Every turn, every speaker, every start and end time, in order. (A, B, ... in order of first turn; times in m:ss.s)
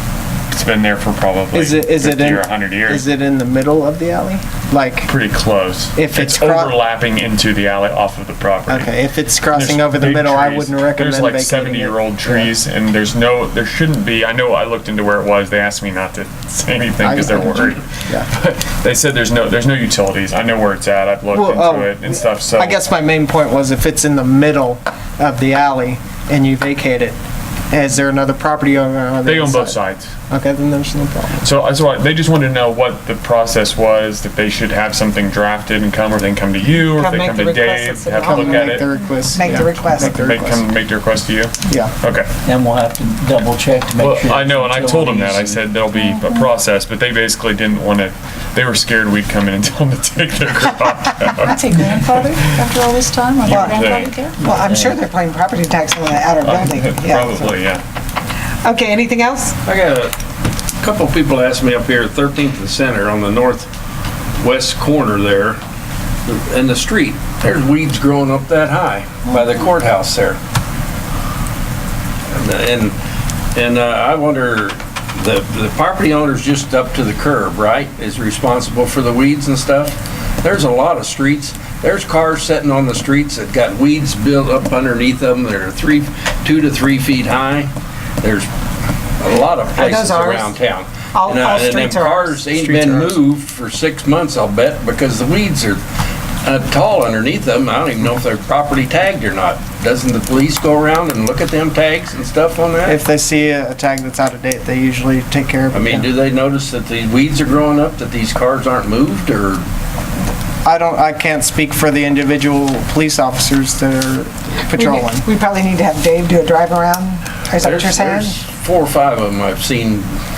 0:00.5-0:03.0 A
0:01.5-0:05.1 B
0:05.1-0:08.9 A
0:06.0-0:06.8 B
0:08.7-0:12.5 B
0:09.5-0:22.8 A
0:17.0-0:18.3 B
0:21.3-0:27.2 B
0:27.7-0:31.4 B
0:29.2-0:30.1 A
0:31.4-0:38.9 A
0:36.9-0:38.8 C
0:38.2-0:40.6 B
0:39.3-0:40.3 C
0:39.9-0:42.3 A
0:42.4-0:45.6 D
0:44.0-0:52.5 A
0:45.9-0:46.4 E
0:51.4-0:54.4 E
0:53.5-0:54.2 A
0:53.5-0:53.8 C
0:54.4-0:55.0 D
0:54.4-0:57.5 C
0:56.4-0:57.8 A
0:58.6-0:59.6 C
0:59.6-1:00.1 F
1:00.8-1:03.7 F
1:04.4-1:05.6 F
1:06.3-1:10.4 F
1:12.3-1:13.0 F
1:13.6-1:28.5 F
1:29.2-1:35.8 F
1:29.8-1:30.6 C
1:31.1-1:33.0 C
1:36.4-1:43.0 F
1:42.8-1:46.1 B
1:45.7-1:49.6 F
1:50.6-1:55.2 B
1:54.7-1:58.4 C
1:57.6-2:00.1 F